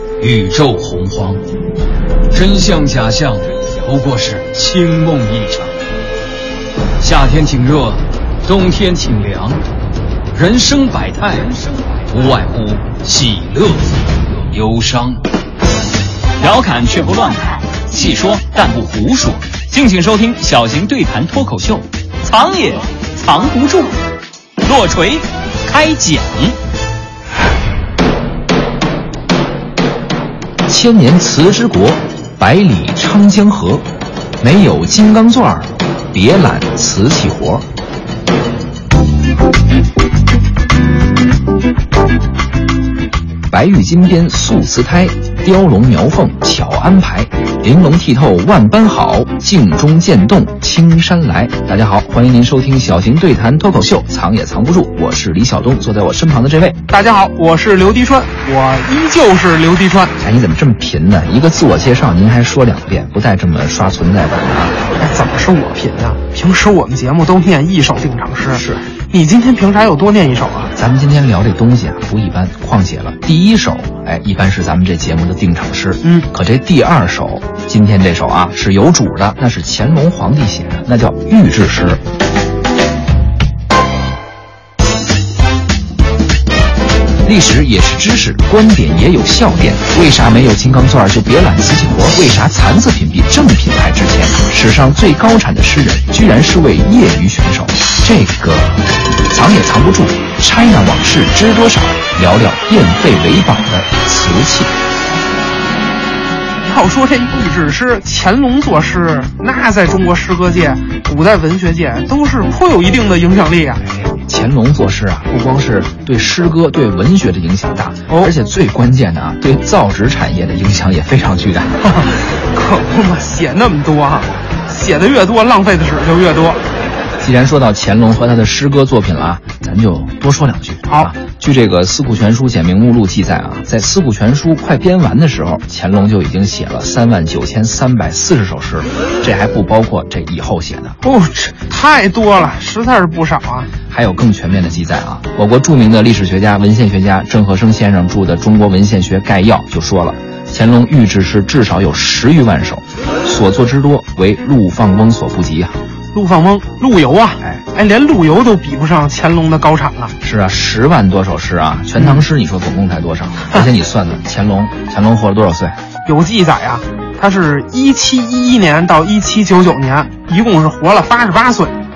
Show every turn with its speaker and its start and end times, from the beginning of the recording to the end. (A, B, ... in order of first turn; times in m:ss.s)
0:00.2-0:01.4 A
0:02.3-0:05.7 A
0:07.0-0:09.6 A
0:10.3-0:15.2 A
0:16.4-0:24.0 B
0:24.6-0:26.6 B
0:30.7-0:33.8 C
0:34.4-0:37.7 C
0:43.5-0:56.8 C
0:56.9-1:00.1 D
1:00.2-1:04.8 C
1:05.0-1:10.7 D
1:08.5-1:08.8 C
1:10.8-1:22.0 C
1:16.0-1:16.3 D
1:27.2-1:44.7 C
1:46.6-1:53.8 D
1:53.8-2:01.8 C
1:58.1-1:58.3 D
2:01.8-2:06.6 D
2:07.2-2:21.0 C
2:10.8-2:11.1 D
2:21.0-2:23.7 D
2:23.9-2:35.8 C
2:36.1-2:40.1 D
2:40.2-2:45.8 C
2:42.0-2:42.2 D
2:46.0-2:51.8 D